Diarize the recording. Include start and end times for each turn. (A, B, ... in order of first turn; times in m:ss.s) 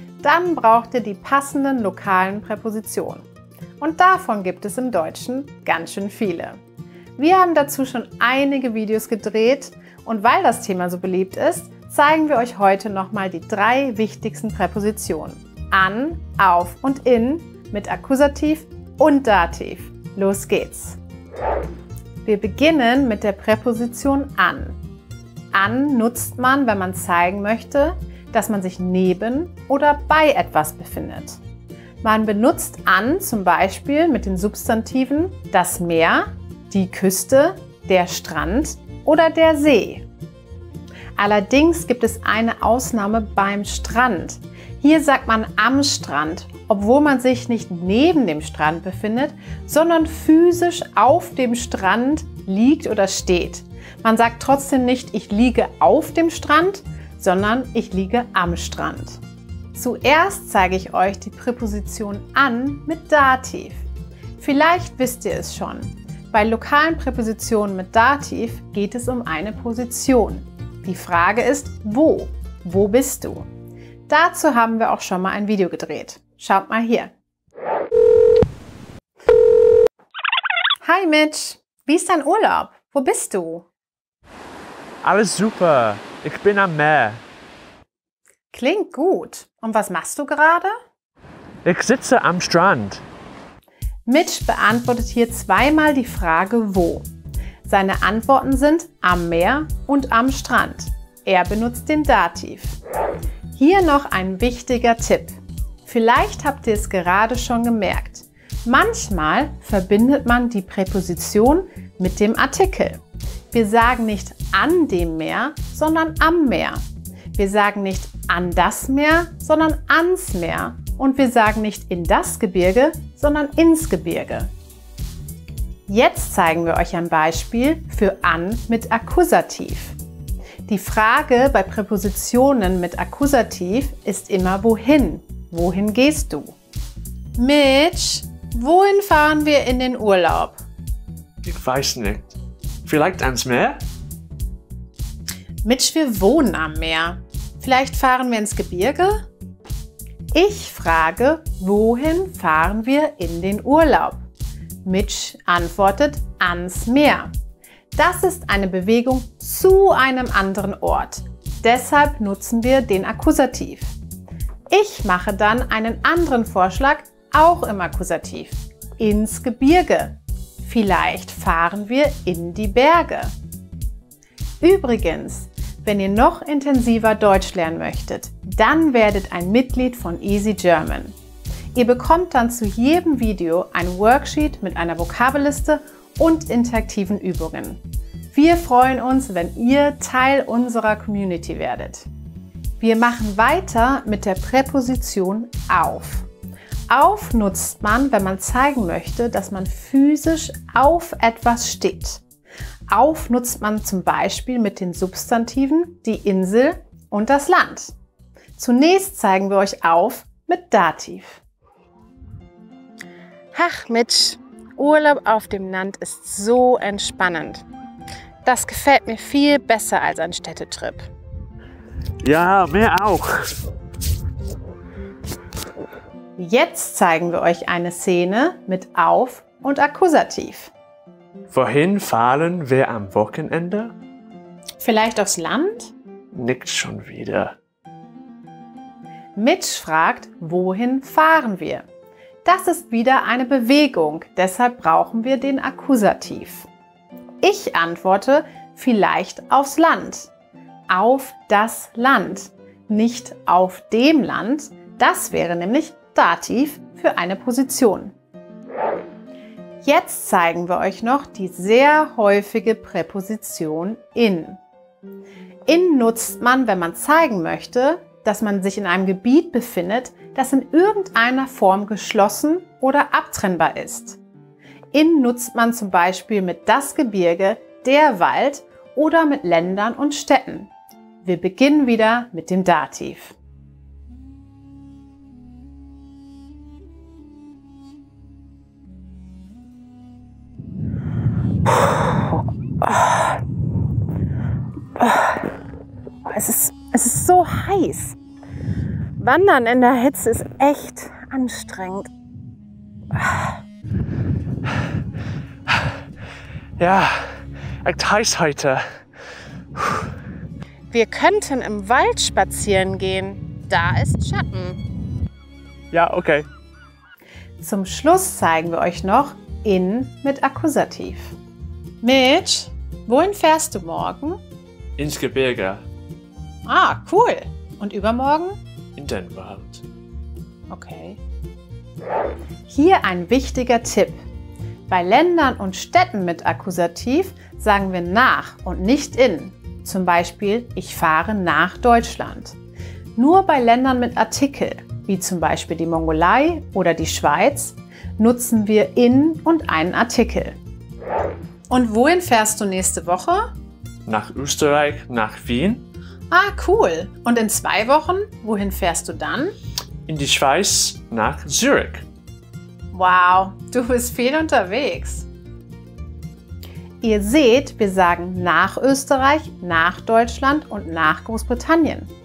0:00.2-0:03.3 A
0:03.8-0:06.6 A
0:07.2-0:21.0 A
0:22.2-0:24.8 A
0:25.5-0:31.4 A
0:32.0-0:40.0 A
0:41.2-0:59.2 A
0:59.8-1:03.9 A
1:04.4-1:13.5 A
1:14.1-1:17.1 A
1:20.8-1:23.7 A
1:25.0-1:27.2 B
1:28.5-1:30.7 A
1:31.6-1:33.0 B
1:34.1-1:37.1 A
1:37.6-1:42.8 A
1:43.6-1:56.8 A
1:57.4-2:04.5 A
2:05.9-2:10.0 A
2:10.7-2:16.6 A
2:17.4-2:20.6 A
2:21.4-2:23.8 B
2:25.6-2:29.2 A
2:30.3-2:34.2 A
2:34.8-2:37.3 A
2:38.0-2:44.0 A
2:44.7-2:53.3 A
2:54.6-3:01.2 A
3:01.8-3:07.8 A
3:08.3-3:12.1 A
3:12.8-3:16.3 A
3:16.9-3:22.2 A
3:22.9-3:28.0 A
3:28.6-3:31.4 A
3:33.5-3:37.7 A
3:38.4-3:41.1 A
3:42.2-3:43.6 B
3:46.4-3:50.7 A
3:51.5-3:53.9 B
3:54.8-3:55.9 A
3:56.3-3:57.6 B
3:59.4-4:01.9 A
4:02.4-4:06.7 A
4:07.4-4:10.3 A
4:10.9-4:18.2 A
4:19.8-4:24.6 A
4:25.7-4:34.2 A
4:34.9-4:40.7 A
4:41.2-4:43.4 A
4:51.8-4:53.4 A
4:55.0-4:55.5 A
4:56.2-4:58.2 A
4:59.2-5:02.1 A
5:03.2-5:03.5 A
5:06.8-5:08.8 B
5:09.8-5:10.1 B
5:10.9-5:14.8 A
5:15.9-5:16.5 B
5:17.6-5:21.4 A
5:22.0-5:24.4 A
5:25.0-5:25.9 B
5:26.7-5:28.6 A
5:29.0-5:29.8 B
5:30.7-5:31.2 A
5:32.7-5:34.2 A
5:34.9-5:42.6 A
5:43.2-5:50.6 A
5:51.7-5:53.5 A
5:54.1-5:55.9 B
5:56.3-5:59.5 A
6:00.1-6:02.1 B
6:02.9-6:05.3 A
6:07.0-6:12.1 A